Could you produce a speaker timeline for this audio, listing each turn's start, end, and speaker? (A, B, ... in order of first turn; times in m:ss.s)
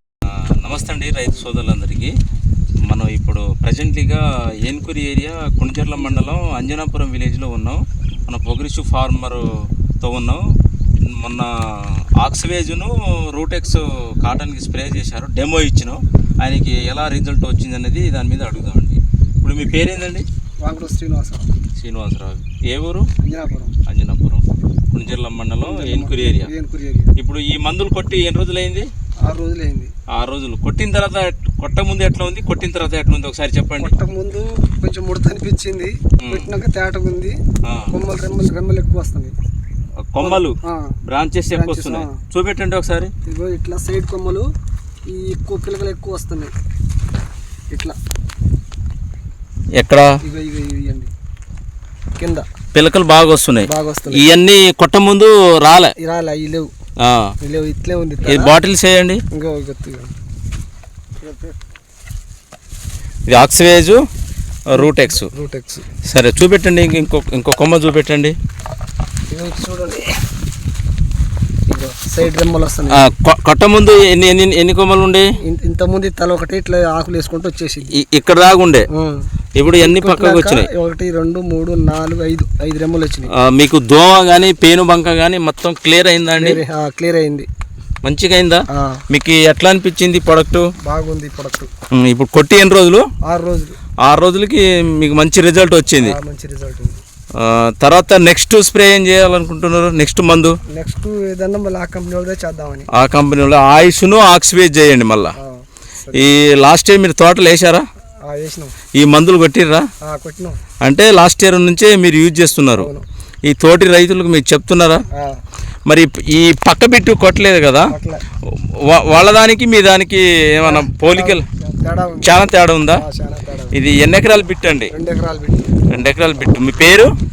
0:00.3-0:02.2 A
0:02.8-0:09.5 A
0:06.0-0:06.3 B
0:10.0-0:10.4 A
0:11.0-0:20.3 A
0:20.6-0:21.5 B
0:21.8-0:23.1 A
0:23.2-0:23.7 B
0:23.9-0:26.5 A
0:25.6-0:27.1 B
0:27.2-0:28.9 A
0:29.2-0:29.9 B
0:30.1-0:33.9 A
0:33.8-0:37.4 B
0:36.2-0:36.5 A
0:37.6-0:37.9 A
0:37.9-0:39.3 B
0:40.0-0:43.1 A
0:40.2-0:40.9 B
0:41.5-0:42.2 B
0:43.3-0:44.4 B
0:45.1-0:46.5 B
0:49.8-0:50.1 A
0:50.2-0:51.1 B
0:52.2-0:52.5 B
0:52.7-0:55.9 A
0:53.7-0:54.3 B
0:56.0-0:56.7 B
0:57.0-0:57.3 A
0:57.4-0:58.6 B
0:58.2-0:59.2 A
0:59.3-1:00.1 B
1:03.3-1:04.0 A
1:04.7-1:05.3 A
1:04.7-1:05.9 B
1:06.0-1:08.4 A
1:09.3-1:10.1 B
1:11.7-1:13.1 B
1:12.9-1:15.3 A
1:15.4-1:17.9 B
1:17.9-1:18.9 A
1:18.9-1:23.3 B
1:19.6-1:20.7 A
1:23.3-1:26.6 A
1:26.4-1:27.5 B
1:28.0-1:30.7 A
1:28.7-1:29.0 B
1:30.8-1:31.7 B
1:31.9-1:33.1 A
1:33.2-1:33.8 B
1:34.0-1:36.2 A
1:36.0-1:37.0 B
1:37.4-1:40.6 A
1:40.7-1:42.9 B
1:42.9-1:45.3 A
1:45.4-1:46.3 B
1:46.1-1:47.8 A
1:48.2-1:48.8 B
1:49.0-1:49.9 A
1:50.0-1:50.6 B
1:50.8-1:52.9 A
1:52.8-1:53.0 B
1:53.4-1:55.0 A
1:55.1-1:55.4 B
1:55.9-1:57.9 A
1:57.9-1:58.2 B
1:58.8-2:01.4 A
2:00.6-2:03.8 B
2:02.2-2:03.0 A
2:03.7-2:04.9 A
2:04.9-2:05.9 B
2:05.9-2:07.1 A